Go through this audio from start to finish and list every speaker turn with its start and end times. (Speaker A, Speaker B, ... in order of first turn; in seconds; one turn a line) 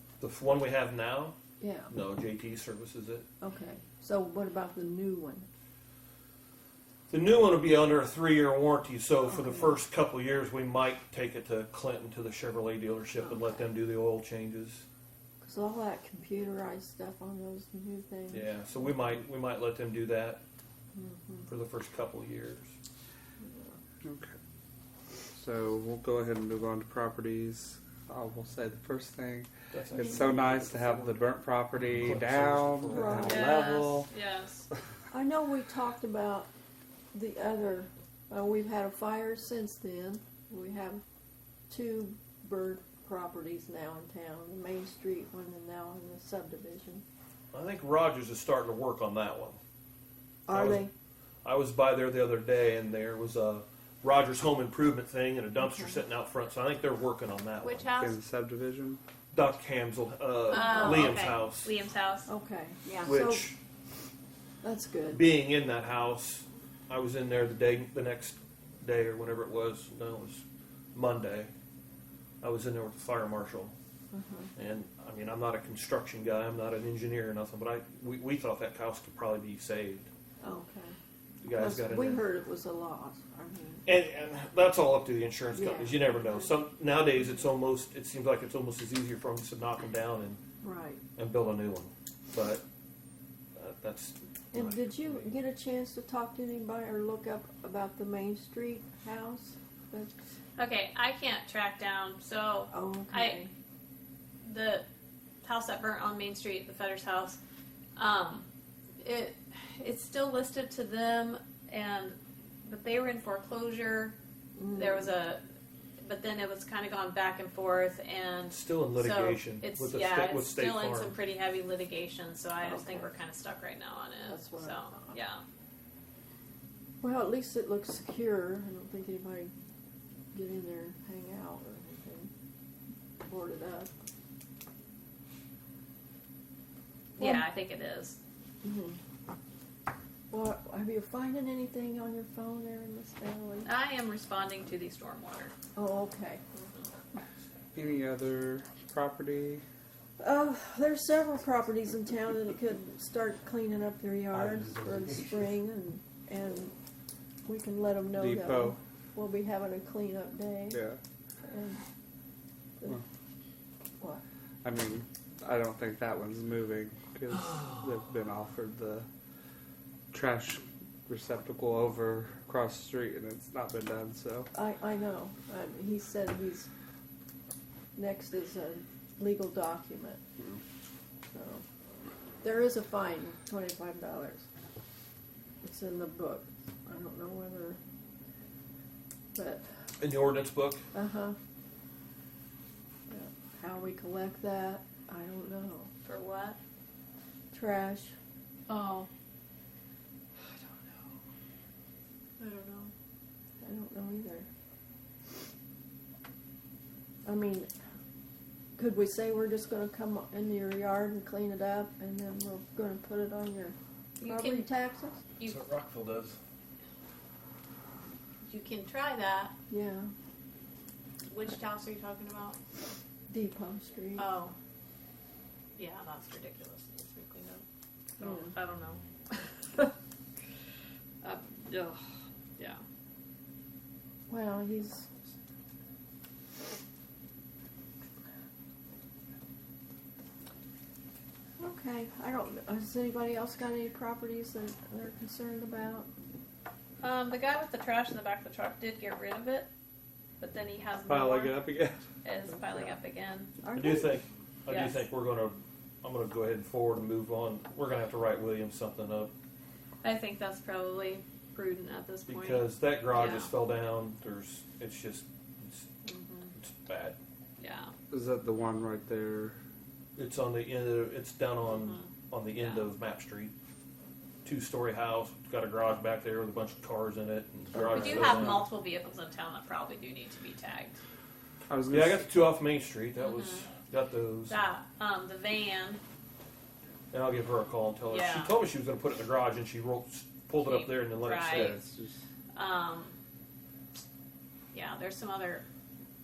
Speaker A: 0.2-1.3
Speaker B: 1.6-1.9
Speaker A: 1.9-3.2
Speaker B: 3.4-5.5
Speaker A: 7.1-14.8
Speaker B: 9.3-9.8
Speaker B: 15.4-18.7
Speaker A: 18.3-20.4
Speaker B: 20.9-21.5
Speaker A: 21.5-22.7
Speaker B: 23.4-23.7
Speaker C: 24.0-24.4
Speaker C: 25.4-34.1
Speaker A: 29.7-33.2
Speaker B: 32.9-33.5
Speaker D: 33.2-34.6
Speaker B: 35.1-36.5
Speaker B: 37.1-41.0
Speaker B: 41.7-47.0
Speaker A: 47.5-49.6
Speaker B: 50.5-50.9
Speaker A: 50.5-50.9
Speaker A: 51.4-57.9
Speaker B: 55.6-56.0
Speaker D: 57.6-58.2
Speaker C: 58.0-59.0
Speaker A: 59.3-61.7
Speaker D: 60.5-62.3
Speaker B: 60.5-61.1
Speaker B: 62.3-63.5
Speaker A: 63.0-63.6
Speaker B: 64.6-65.2
Speaker A: 65.1-71.5
Speaker A: 72.4-73.7
Speaker B: 74.1-74.5
Speaker A: 74.5-80.1
Speaker B: 80.4-81.0
Speaker A: 81.4-82.3
Speaker B: 81.5-83.9
Speaker A: 83.8-90.4
Speaker B: 85.5-86.5
Speaker B: 90.6-91.0
Speaker A: 91.2-92.6
Speaker A: 93.6-95.2
Speaker B: 94.5-100.2
Speaker D: 100.6-103.4
Speaker B: 102.7-103.5
Speaker D: 104.4-104.8
Speaker D: 105.4-107.4
Speaker D: 108.0-108.5
Speaker D: 109.0-114.1
Speaker B: 114.5-115.1
Speaker D: 114.7-115.4
Speaker D: 116.0-125.4
Speaker A: 118.5-121.1
Speaker B: 122.6-123.1
Speaker B: 124.2-125.2
Speaker B: 127.0-129.5
Speaker B: 130.3-132.3
Speaker B: 133.2-133.9
Speaker B: 137.2-137.4
Speaker D: 137.2-138.2
Speaker B: 138.6-139.0
Speaker B: 140.3-143.7
Speaker D: 143.6-145.5
Speaker B: 145.7-146.4
Speaker C: 147.7-149.6
Speaker B: 150.2-156.7
Speaker B: 157.4-160.8
Speaker C: 158.2-158.8
Speaker C: 160.7-161.0
Speaker B: 161.4-161.8
Speaker C: 164.6-169.1
Speaker C: 170.1-174.5
Speaker B: 174.5-176.7
Speaker B: 177.9-180.2
Speaker B: 181.3-181.6
Speaker B: 182.4-184.4
Speaker B: 185.6-187.8
Speaker B: 189.3-189.6
Speaker A: 190.0-190.8
Speaker B: 190.9-191.3
Speaker B: 193.1-195.9
Speaker D: 196.0-196.6
Speaker B: 197.5-198.1
Speaker D: 198.7-199.1
Speaker D: 202.4-202.9
Speaker B: 203.6-204.5
Speaker B: 207.2-207.7
Speaker B: 208.8-215.2
Speaker D: 214.2-214.7
Speaker D: 215.4-215.6
Speaker A: 215.5-216.3
Speaker D: 218.4-219.5
Speaker B: 219.7-220.1
Speaker D: 221.3-222.6
Speaker B: 223.3-224.3
Speaker D: 224.2-224.5
Speaker D: 225.7-227.6
Speaker D: 228.2-229.9
Speaker B: 228.2-228.5
Speaker D: 231.2-232.0
Speaker B: 234.3-235.1
Speaker B: 241.6-246.1
Speaker D: 247.0-249.7
Speaker D: 250.4-251.6
Speaker C: 251.1-252.1
Speaker D: 252.2-253.5
Speaker B: 253.6-254.2
Speaker A: 253.7-259.3
Speaker D: 254.7-255.0
Speaker D: 260.0-263.5
Speaker A: 262.3-266.0
Speaker D: 266.1-266.4
Speaker A: 266.6-267.2
Speaker D: 267.6-267.9
Speaker C: 268.1-269.6
Speaker A: 270.1-273.5
Speaker D: 271.6-272.9
Speaker A: 274.4-278.7
Speaker D: 277.9-281.0
Speaker C: 278.0-278.6
Speaker C: 281.7-282.3
Speaker A: 281.9-284.6
Speaker D: 283.2-283.7
Speaker D: 284.5-286.0
Speaker A: 287.1-291.8
Speaker D: 288.1-288.5
Speaker D: 290.6-291.8
Speaker C: 291.4-292.2
Speaker D: 292.5-293.1
Speaker D: 294.7-295.6